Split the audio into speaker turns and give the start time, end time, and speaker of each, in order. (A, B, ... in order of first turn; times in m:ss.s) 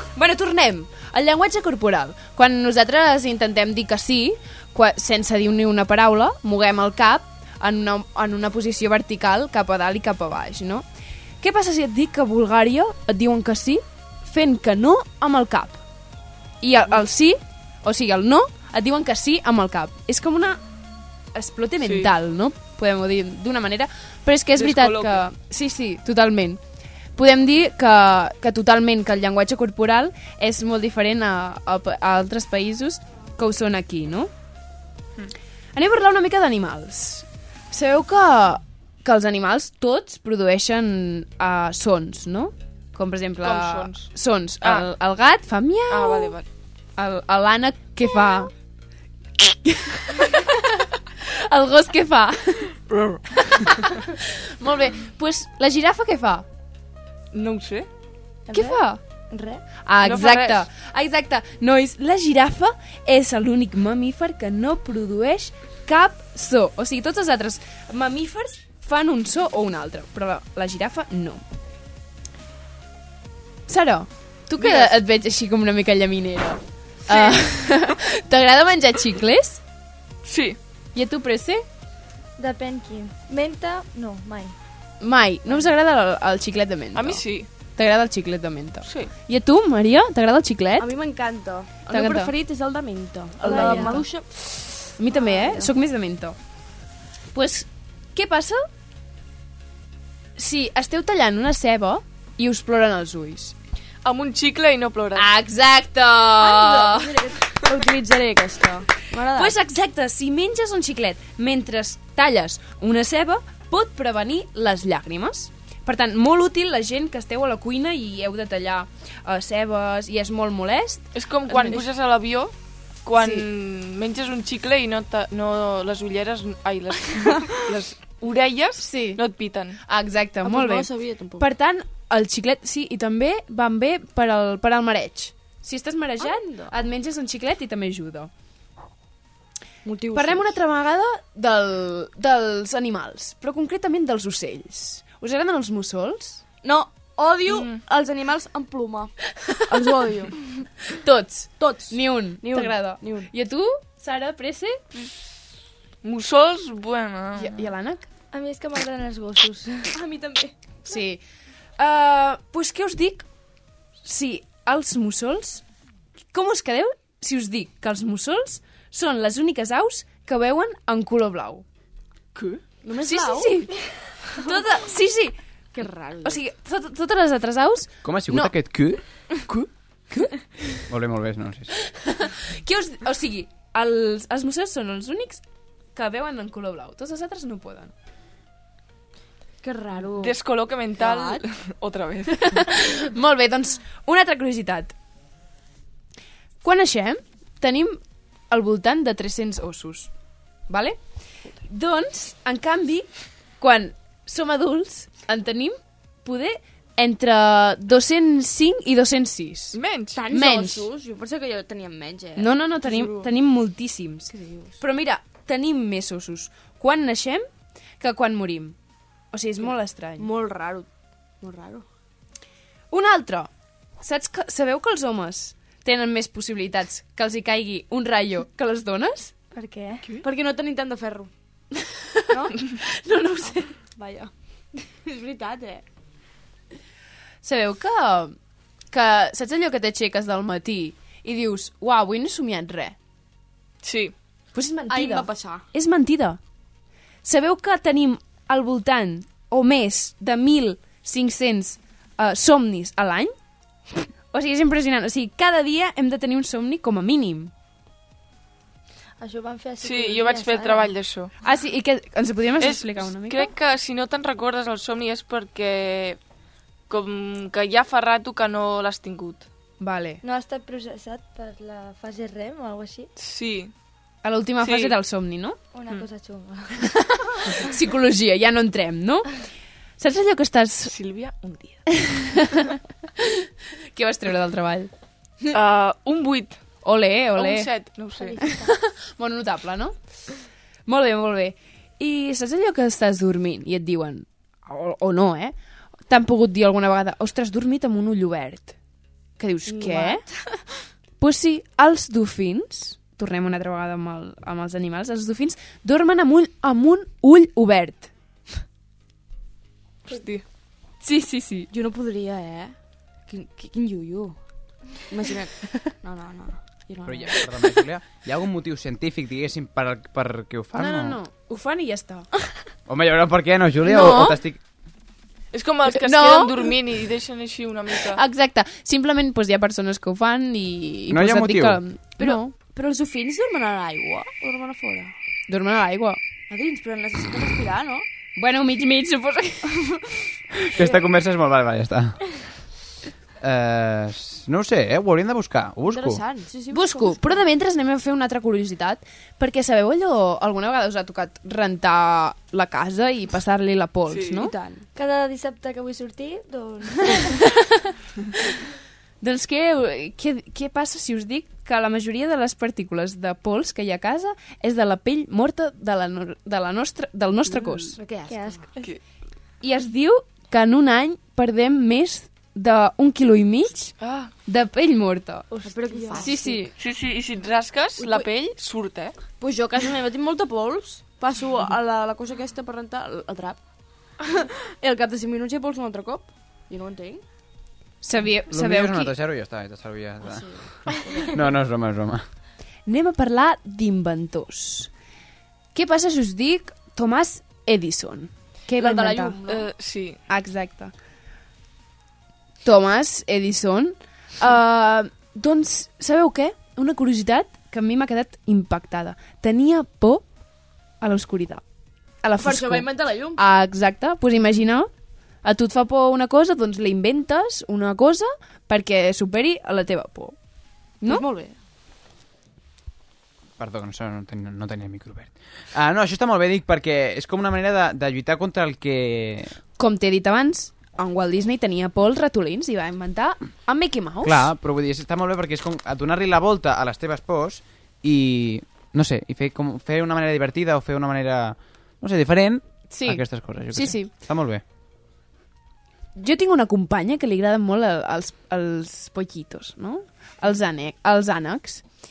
0:00.2-0:10.9 A
0:11.4-0:15.8 A
0:16.6-0:20.6 A
0:21.3-0:26.6 A
0:21.8-0:22.1 B
0:24.5-0:25.3 B
0:27.1-0:34.3 A
0:35.7-0:46.4 A
0:43.4-0:44.9 B
0:45.9-0:46.5 B
0:47.0-0:48.5 A
0:49.4-0:50.4 A
0:51.5-0:52.7 A
0:52.9-0:53.7 B
0:54.6-0:56.4 A
0:57.3-0:57.9 B
0:58.5-0:58.8 C
0:58.5-0:59.0 A
0:59.3-0:59.6 C
0:59.8-1:11.4 A
1:00.0-1:00.6 B
1:13.7-1:19.6 A
1:20.2-1:20.6 B
1:20.9-1:21.6 A
1:22.4-1:24.5 D
1:25.0-1:30.9 A
1:26.9-1:27.5 B
1:28.8-1:29.1 B
1:30.8-1:35.7 C
1:31.8-1:32.3 A
1:33.4-1:34.0 D
1:33.4-1:34.0 B
1:33.6-1:33.9 A
1:35.0-1:36.4 A
1:37.3-1:38.6 A
1:40.4-1:43.5 A
1:44.0-1:45.3 B
1:45.2-1:47.1 A
1:46.4-1:49.5 C
1:49.3-2:01.8 A
2:01.1-2:09.8 B
2:03.2-2:03.4 A
2:08.8-2:18.3 A
2:10.4-2:11.4 C
2:16.2-2:16.7 C
2:19.8-2:20.5 C
2:20.1-2:26.4 A
2:26.6-2:30.4 C
2:27.4-2:27.8 B
2:31.0-2:34.8 A
2:31.6-2:33.3 C
2:36.0-2:37.5 B
2:37.4-2:38.0 A
2:38.3-2:40.5 D
2:40.0-2:40.4 C
2:40.9-2:41.2 A
2:41.8-2:43.3 A
2:44.0-2:45.6 A
2:46.3-2:51.6 A
2:52.8-2:53.6 C
2:53.0-2:55.4 A
2:55.7-2:56.4 C
2:56.2-3:00.4 A
2:58.0-2:59.1 E
3:00.9-3:01.7 E
3:02.6-3:07.9 A
3:09.6-3:10.4 C
3:10.2-3:12.6 B
3:12.5-3:14.9 A
3:16.6-3:20.1 A
3:20.7-3:30.9 A
3:29.7-3:30.2 B
3:30.1-3:33.3 C
3:32.4-3:37.5 A
3:34.3-3:34.8 C
3:38.0-3:38.7 A
3:39.3-3:40.3 A
3:39.6-3:40.9 C
3:41.4-3:41.8 C
3:42.9-3:49.3 A
3:49.5-3:50.0 D
3:50.2-3:51.3 C
3:52.3-3:52.6 C
3:53.0-3:53.7 A
3:53.9-3:54.3 C
3:55.1-3:55.8 C
3:57.4-3:58.3 A
3:58.9-4:02.9 A
4:03.8-4:04.1 B
4:04.5-4:06.4 A
4:04.9-4:05.6 C
4:07.2-4:13.4 A
4:14.3-4:17.5 A
4:19.2-4:20.9 D
4:19.8-4:21.3 B
4:21.4-4:23.5 A
4:22.6-4:26.2 B
4:26.9-4:29.5 B
4:29.8-4:30.2 A
4:30.2-4:33.1 D
4:33.2-4:33.7 B
4:34.2-4:35.6 A
4:34.6-4:34.9 B
4:35.7-4:36.8 D
4:37.5-4:40.9 A
4:40.8-4:41.8 B
4:42.0-4:42.6 A
4:43.9-4:44.9 A
4:45.5-4:46.6 B
4:46.8-4:47.9 A
4:47.3-4:48.5 B
4:48.2-4:48.7 D
4:48.4-4:50.0 A
4:50.9-4:55.5 A
4:56.1-4:58.8 A
4:59.4-5:00.5 A
4:59.6-5:00.2 C
5:01.2-5:08.1 A
5:10.1-5:10.4 B
5:11.0-5:11.7 A
5:11.7-5:14.4 C
5:15.1-5:17.5 C
5:17.0-5:21.2 E
5:20.8-5:22.3 A
5:22.9-5:24.6 E
5:23.8-5:24.4 A
5:25.5-5:28.2 B
5:25.9-5:26.6 A
5:28.1-5:32.5 A
5:31.1-5:31.8 E
5:32.2-5:35.1 C
5:35.5-5:36.2 A
5:36.5-5:38.0 C
5:38.4-5:40.0 A
5:40.7-5:42.4 E
5:43.4-5:46.2 E
5:45.9-5:47.4 C
5:46.7-5:54.5 A
5:54.0-5:54.5 B
5:54.4-5:54.8 C
5:54.9-5:57.4 D
5:59.2-6:08.0 A
6:08.0-6:08.6 C
6:08.2-6:08.7 D
6:08.7-6:09.0 B
6:09.6-6:15.5 A
6:14.0-6:14.3 B
6:15.6-6:16.5 D
6:15.6-6:16.6 C
6:16.2-6:16.7 A
6:16.8-6:19.2 B
6:19.4-6:23.6 C
6:24.8-6:27.2 C
6:28.0-6:29.1 A
6:28.5-6:32.2 E
6:30.2-6:30.8 C
6:32.9-6:34.9 A
6:35.7-6:39.4 A
6:38.8-6:39.7 C
6:39.4-6:40.2 B
6:40.3-6:40.9 A
6:42.6-6:50.3 A
6:51.0-6:51.6 A
6:52.2-6:54.9 A
6:52.4-6:53.4 C
6:55.4-7:00.4 A
7:01.0-7:01.6 C
7:03.6-7:09.6 E
7:09.8-7:14.5 A
7:14.2-7:24.6 E
7:22.9-7:24.1 A
7:26.2-7:31.9 A